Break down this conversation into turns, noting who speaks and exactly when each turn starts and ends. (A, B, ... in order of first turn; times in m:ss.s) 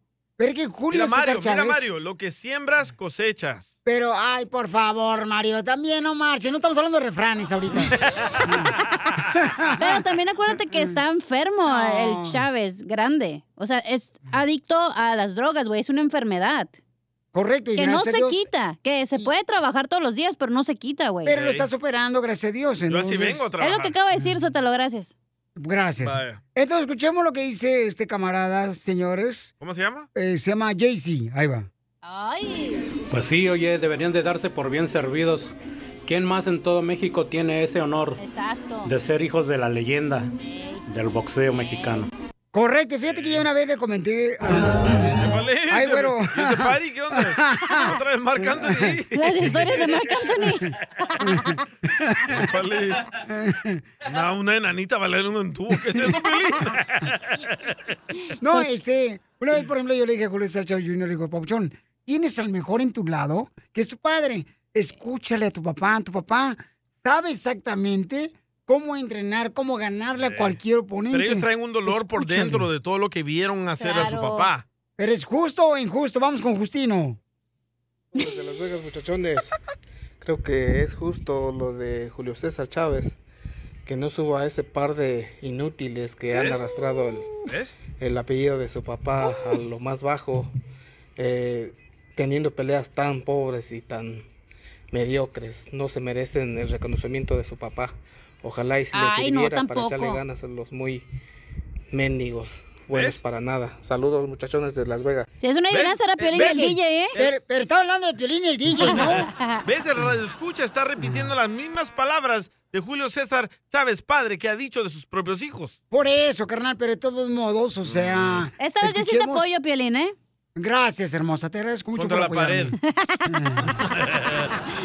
0:00.4-0:01.9 A
0:00.9-0:03.7 B
0:03.8-0:08.7 A
0:08.0-0:08.3 B
0:09.3-0:10.0 A
0:09.8-0:16.8 C
0:10.7-0:11.0 A
0:11.7-0:12.4 A
0:17.3-0:18.5 A
0:17.8-0:21.3 C
0:21.2-0:23.5 A
0:21.3-0:21.7 B
0:22.9-0:24.0 B
0:23.6-0:25.1 C
0:25.6-0:29.5 A
0:26.0-0:26.4 B
0:29.6-0:30.1 B
0:30.1-0:31.7 A
0:32.0-0:32.9 C
0:33.1-0:35.5 D
0:36.0-0:38.2 D
0:38.2-0:38.9 C
0:38.9-0:40.3 D
0:40.2-0:40.8 C
0:40.9-0:42.1 D
0:41.5-0:41.9 C
0:42.5-0:45.1 A
0:43.1-0:43.5 B
0:44.8-0:50.2 B
0:45.7-0:48.9 A
0:49.1-0:50.7 C
0:51.2-0:52.4 A
0:52.3-0:53.1 B
0:53.3-0:53.8 A
0:54.0-0:57.4 B
0:58.4-1:12.7 A
1:10.2-1:10.6 B
1:11.1-1:14.6 B
1:13.8-1:14.5 C
1:15.0-1:17.2 A
1:18.2-1:19.5 E
1:20.2-1:23.2 E
1:23.8-1:27.3 E
1:26.3-1:26.6 B
1:27.4-1:27.7 B
1:28.0-1:30.5 E
1:31.2-1:34.2 E
1:34.9-1:41.0 E
1:38.9-1:40.2 C
1:41.9-1:45.3 E
1:42.9-1:43.2 B
1:45.4-1:47.1 C
1:45.7-1:47.3 B
1:46.3-1:49.3 A
1:48.8-1:49.6 C
1:48.8-1:55.8 B
1:55.9-1:59.5 A
1:57.8-1:58.5 B
1:58.6-2:00.1 C
2:00.6-2:02.7 A
2:01.9-2:02.7 B
2:03.3-2:03.8 A
2:03.8-2:04.5 B